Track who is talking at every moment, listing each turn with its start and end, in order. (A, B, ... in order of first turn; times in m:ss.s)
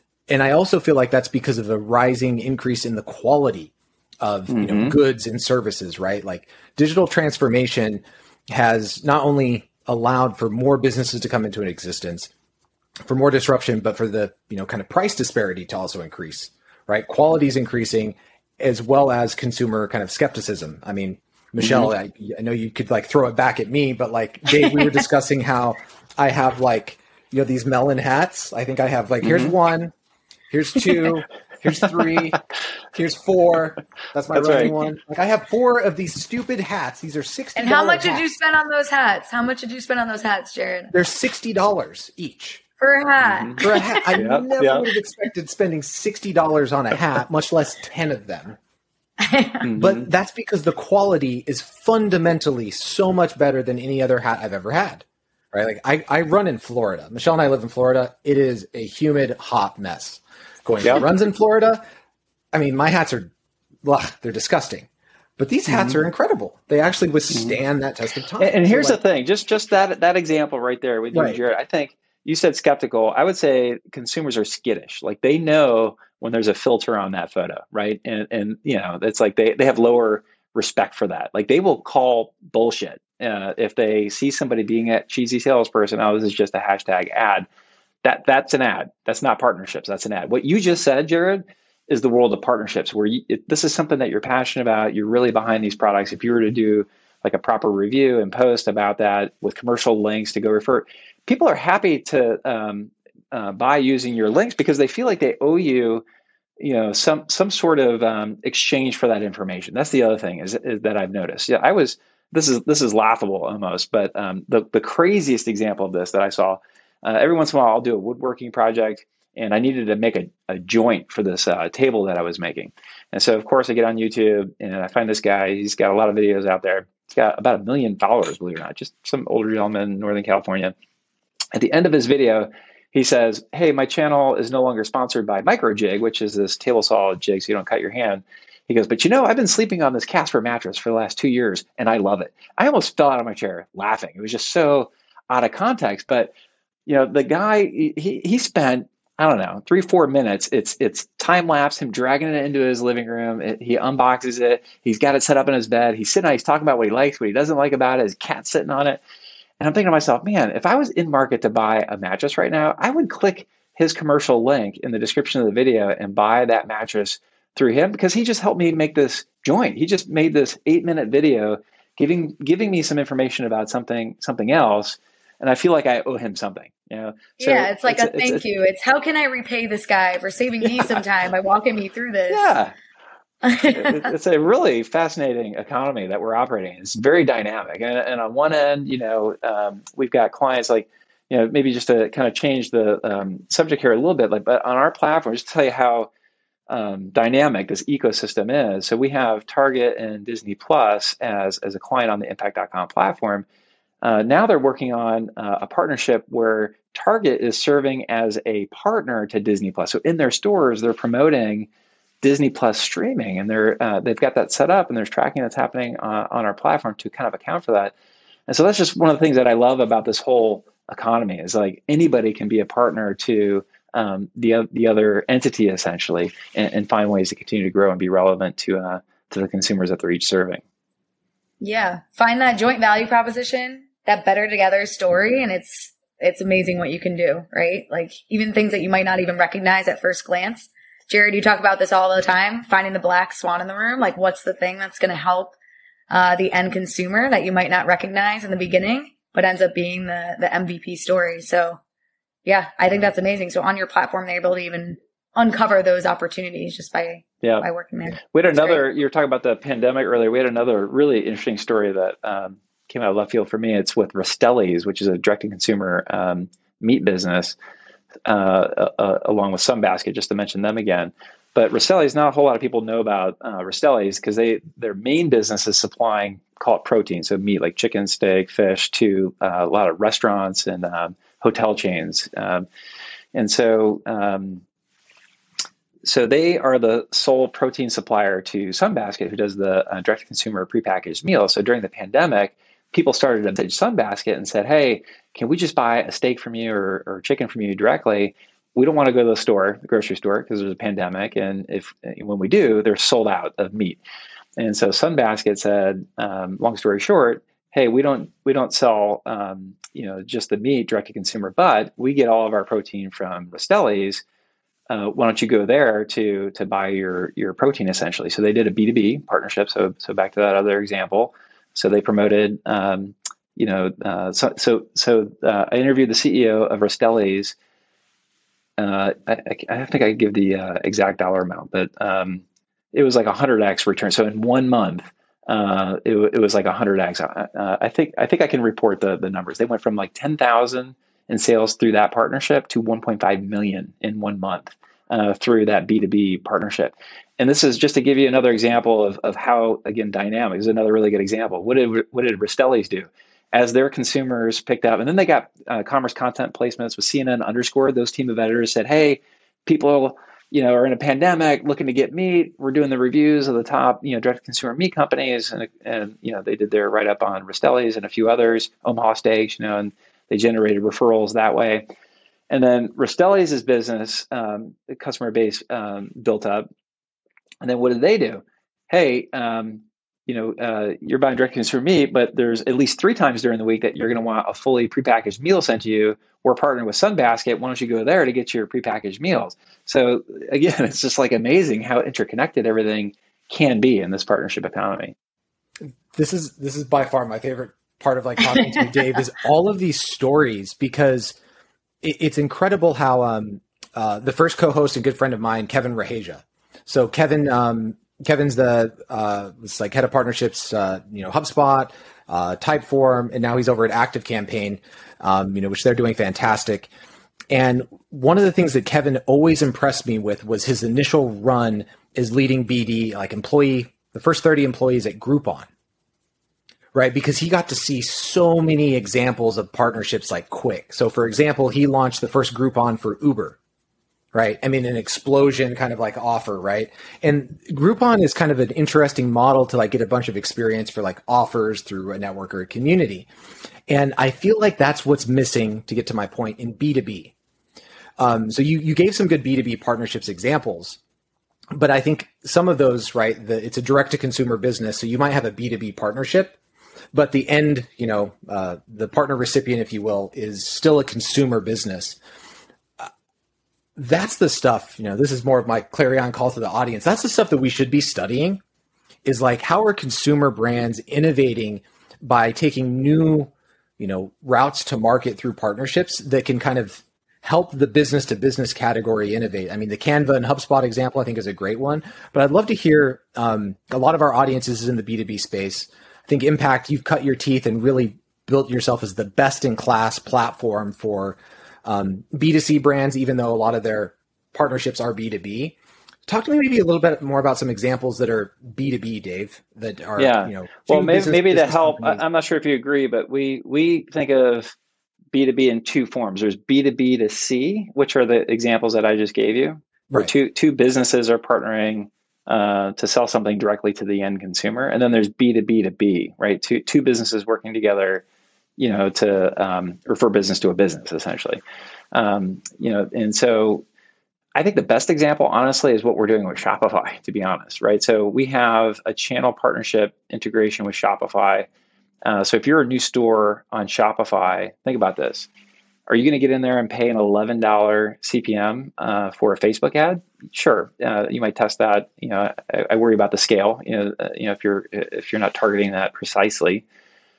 0:00.3-0:12.3 A
0:04.5-0:04.9 B
0:13.0-0:29.9 A
0:21.6-0:21.9 B
0:29.2-0:29.5 B
0:30.5-0:32.4 A
0:32.9-0:38.2 A
0:34.3-0:34.7 B
0:37.6-0:40.9 C
0:40.9-0:42.6 A
0:42.8-0:44.2 C
0:43.2-0:43.6 B
0:43.6-0:48.6 A
0:44.1-0:44.8 B
0:49.2-0:49.6 C
0:49.6-0:50.1 B
0:49.8-1:01.8 A
1:00.8-1:01.1 B
1:02.5-1:03.3 A
1:03.8-1:09.0 A
1:05.7-1:06.0 B
1:07.3-1:07.6 B
1:08.4-1:27.5 B
1:28.0-1:46.0 B
1:46.6-2:10.7 B
2:11.5-2:26.3 B
2:26.9-2:39.0 B
2:39.6-2:58.4 B
2:57.4-3:02.5 C
3:00.6-3:01.0 B
3:02.3-3:02.7 B
3:03.4-3:04.1 C
3:03.7-3:16.1 B
3:16.7-3:23.4 B
3:24.0-3:31.7 B
3:32.2-3:37.9 B
3:38.5-3:50.6 B
3:51.6-4:05.6 C
4:06.1-4:11.8 C
4:12.4-4:18.8 C
4:17.4-4:17.7 B
4:18.2-4:27.6 B
4:28.3-4:42.7 B
4:43.3-4:44.6 B
4:46.0-5:04.0 B
5:04.6-5:14.2 B
5:14.9-5:27.6 B
5:28.8-6:11.9 B
6:12.5-6:16.7 B
6:17.6-6:35.1 B
6:36.1-6:41.4 A
6:42.0-6:56.9 A
6:57.5-7:05.7 A
7:06.9-7:13.6 A
7:14.3-7:23.3 A
7:23.9-7:27.3 A
7:28.2-7:31.0 A
7:31.7-7:36.6 A
7:37.1-7:42.2 A
7:44.0-7:48.6 A
7:49.2-8:15.8 A
8:16.3-8:22.2 A
8:20.2-8:24.7 B
8:25.3-8:38.2 B
8:38.8-8:41.6 B
8:42.1-8:43.8 B
8:44.6-8:51.7 B
8:52.2-8:55.5 B
8:56.1-9:06.8 B